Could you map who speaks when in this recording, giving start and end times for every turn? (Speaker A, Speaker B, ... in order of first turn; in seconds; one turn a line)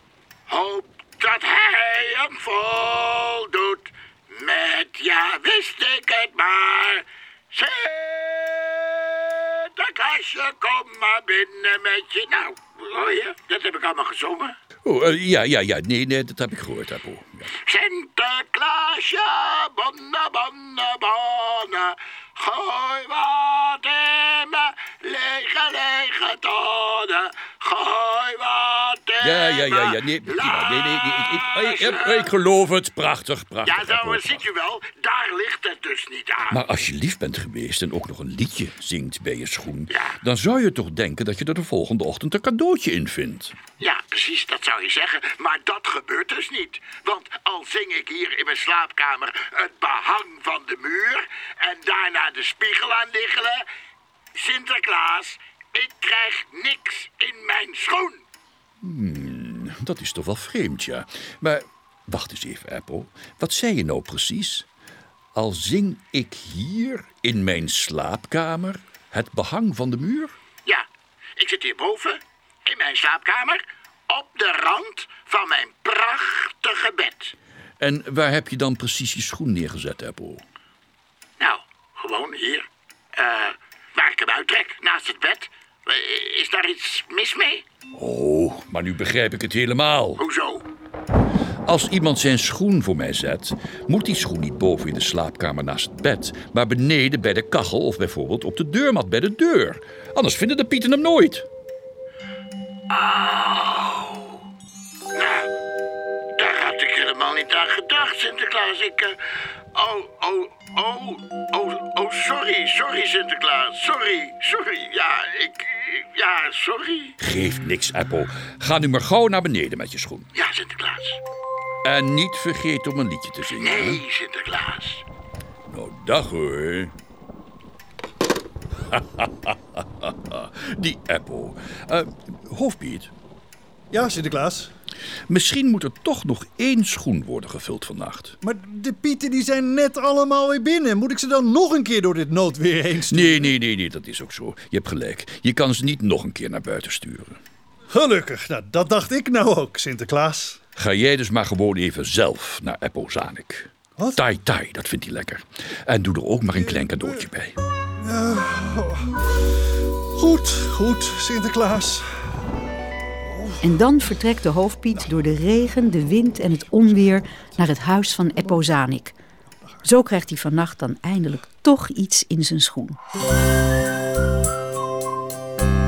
Speaker A: 0.5-14.6
Speaker B: 14.8-17.5
Speaker A: 17.5-32.3
Speaker B: 29.2-34.4
Speaker A: 33.6-36.6
Speaker B: 36.5-43.6
Speaker A: 39.9-40.1
Speaker A: 43.8-53.6
Speaker A: 54.3-58.2
Speaker B: 58.8-64.7
Speaker B: 65.3-70.4
Speaker A: 71.4-77.3
Speaker B: 77.8-80.4
Speaker A: 81.4-87.6
Speaker B: 88.0-90.2
Speaker A: 90.2-90.7
Speaker B: 91.7-101.5
Speaker A: 102.9-104.4
Speaker A: 105.1-105.5
Speaker A: 106.4-109.2
Speaker A: 109.7-117.2
Speaker B: 117.2-120.3
Speaker A: 120.3-121.2
Speaker B: 121.8-124.0
Speaker A: 123.5-125.0
Speaker B: 125.7-126.9
Speaker B: 128.9-133.1
Speaker C: 133.9-134.7
Speaker B: 135.3-138.4
Speaker C: 138.4-143.5
Speaker B: 143.1-147.4
Speaker C: 147.9-150.6
Speaker B: 150.8-157.6
Speaker C: 154.0-154.2
Speaker C: 156.7-157.1
Speaker C: 158.0-159.1
Speaker C: 160.1-162.1
Speaker C: 163.3-163.7
Speaker D: 163.6-169.2
Speaker D: 169.8-173.0